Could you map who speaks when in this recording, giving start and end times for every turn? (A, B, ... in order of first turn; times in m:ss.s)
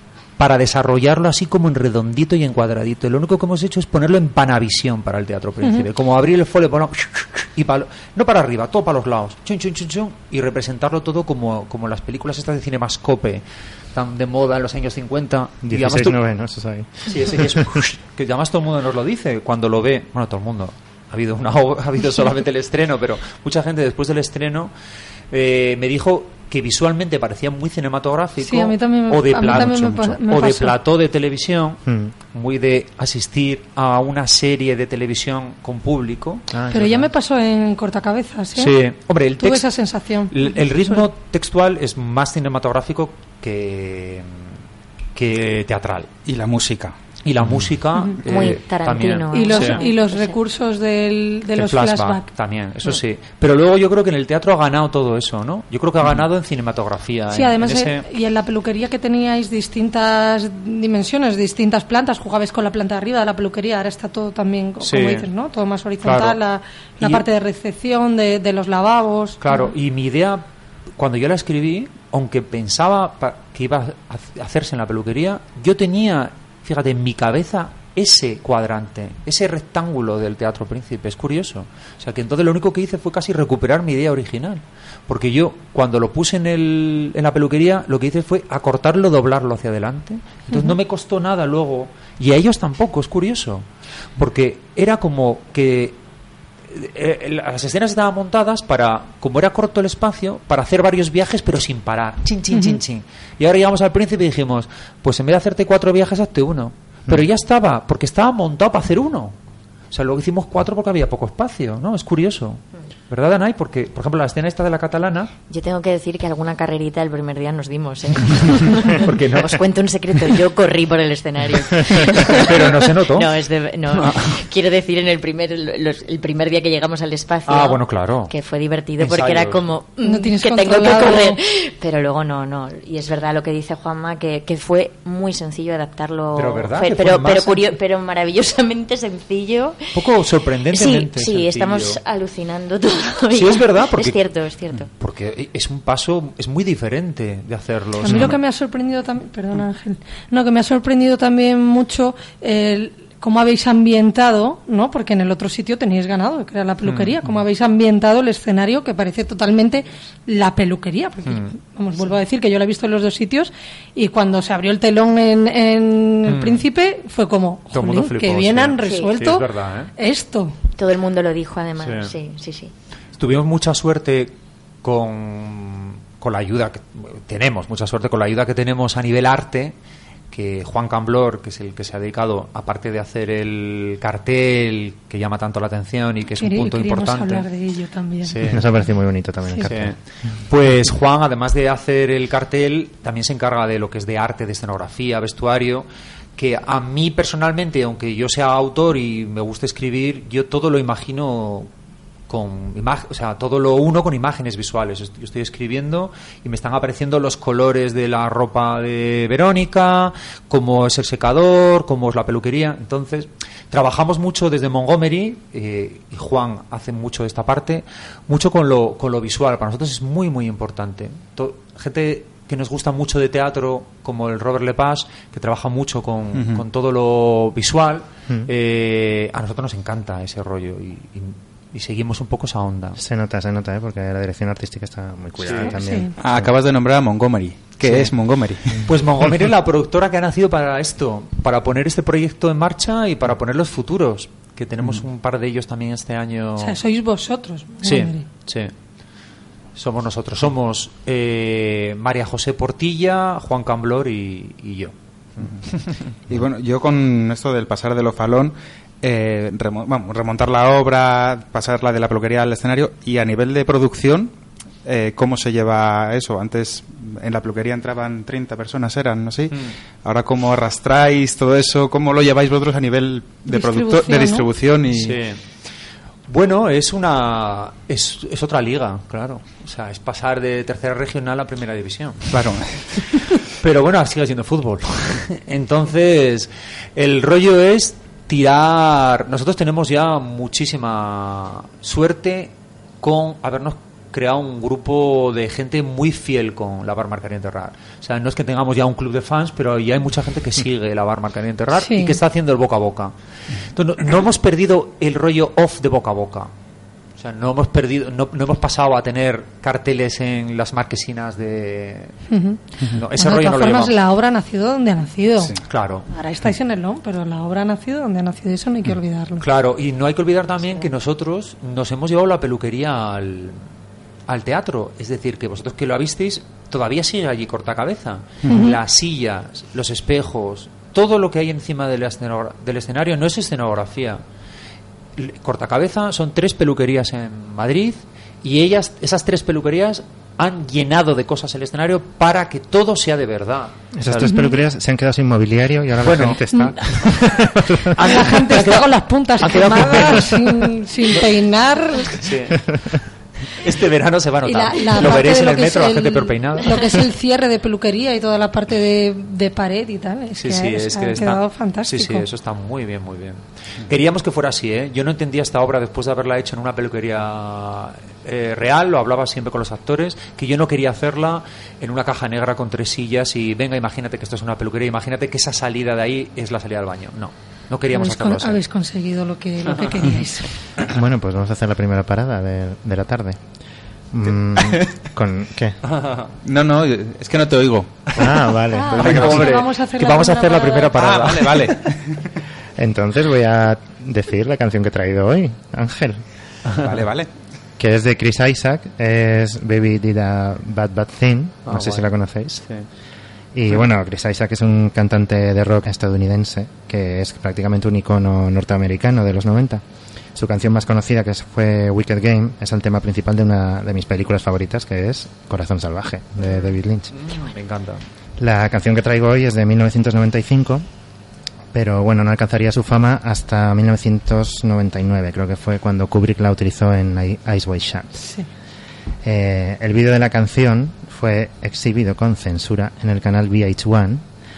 0:00.4-0:16.2 A
0:15.6-0:17.8 B
0:17.0-0:24.7 A
0:25.3-0:37.1 A
0:28.4-0:30.7 C
0:29.5-0:29.8 D
0:31.8-0:32.1 B
0:36.7-0:38.8 C
0:38.6-0:39.7 A
0:39.4-0:41.0 C
0:40.3-0:44.5 A
0:45.1-0:46.1 A
0:46.2-0:46.9 D
0:47.2-0:49.8 A
0:48.2-0:50.4 E
0:49.3-0:52.2 C
0:51.5-0:58.0 A
0:57.3-1:09.7 C
1:04.8-1:05.3 A
1:06.0-1:06.4 A
1:09.4-1:10.4 A
1:11.0-1:33.6 A
1:34.2-1:36.0 A
1:36.7-1:49.4 A
1:42.5-1:42.8 C
1:49.9-1:55.3 A
1:55.5-2:19.8 E
1:58.9-1:59.5 A
2:02.2-2:03.3 A
2:03.9-2:04.4 A
2:07.4-2:08.3 A
2:09.0-2:09.6 A
2:10.0-2:11.4 C
2:16.3-2:17.7 A
2:19.9-2:22.0 A
2:20.7-2:24.9 E
2:23.3-2:24.2 A
2:24.9-2:28.4 A
2:28.0-2:50.6 C
2:36.8-2:37.2 A
2:41.2-2:41.5 A
2:46.3-2:46.6 A
2:47.7-2:49.9 A
2:48.8-2:49.1 E
2:50.7-2:52.7 E
2:51.8-2:52.1 A
2:53.2-2:59.7 A
3:00.3-3:07.5 A
3:06.4-3:08.4 C
3:08.2-3:08.7 A
3:08.4-3:10.0 B
3:09.6-3:21.7 A
3:22.3-3:53.0 A
3:46.3-3:46.6 D
3:53.0-3:56.5 B
3:55.4-3:55.8 A
3:55.8-3:56.1 C
3:56.2-3:58.8 D
3:57.8-3:58.1 A
3:58.7-4:06.8 A
4:06.6-4:08.2 C
4:07.8-4:08.7 A
4:09.7-4:14.9 A
4:15.6-4:16.0 A
4:16.3-4:24.3 D
4:24.8-4:35.2 D
4:33.5-4:34.5 C
4:34.9-4:35.4 A
4:36.3-5:06.5 A
4:42.3-4:43.2 D
5:01.7-5:02.2 C
5:07.2-5:12.1 A
5:12.3-5:12.6 C
5:12.8-5:14.0 A
5:13.1-5:15.5 C
5:15.6-5:16.1 A
5:16.1-5:19.4 C
5:19.4-5:23.6 A
5:24.3-5:34.2 A
5:28.4-5:28.8 C
5:35.2-5:44.3 A
5:43.9-5:48.2 B
5:44.2-5:44.6 C
5:46.0-5:48.9 A
5:48.0-5:52.2 C
5:49.4-5:51.2 A
5:52.1-5:53.0 A
5:53.5-5:56.7 A
5:54.4-6:02.3 C
6:00.4-6:18.6 A
6:17.9-6:20.5 C
6:20.9-6:23.4 B
6:24.1-6:25.8 B
6:25.9-6:26.2 A
6:26.4-6:28.1 D
6:28.2-6:29.4 B
6:28.7-6:31.0 C
6:29.0-6:31.7 A
6:29.0-6:29.4 D
6:31.0-6:32.2 D
6:32.8-6:36.2 B
6:36.8-6:37.3 D
6:37.8-6:42.7 B
6:41.6-6:42.1 A
6:43.5-6:49.8 B
6:50.3-6:57.1 B
6:57.1-6:58.0 A
6:58.4-7:00.9 B
7:01.7-7:08.2 B
7:08.2-7:08.5 C
7:09.2-7:14.2 B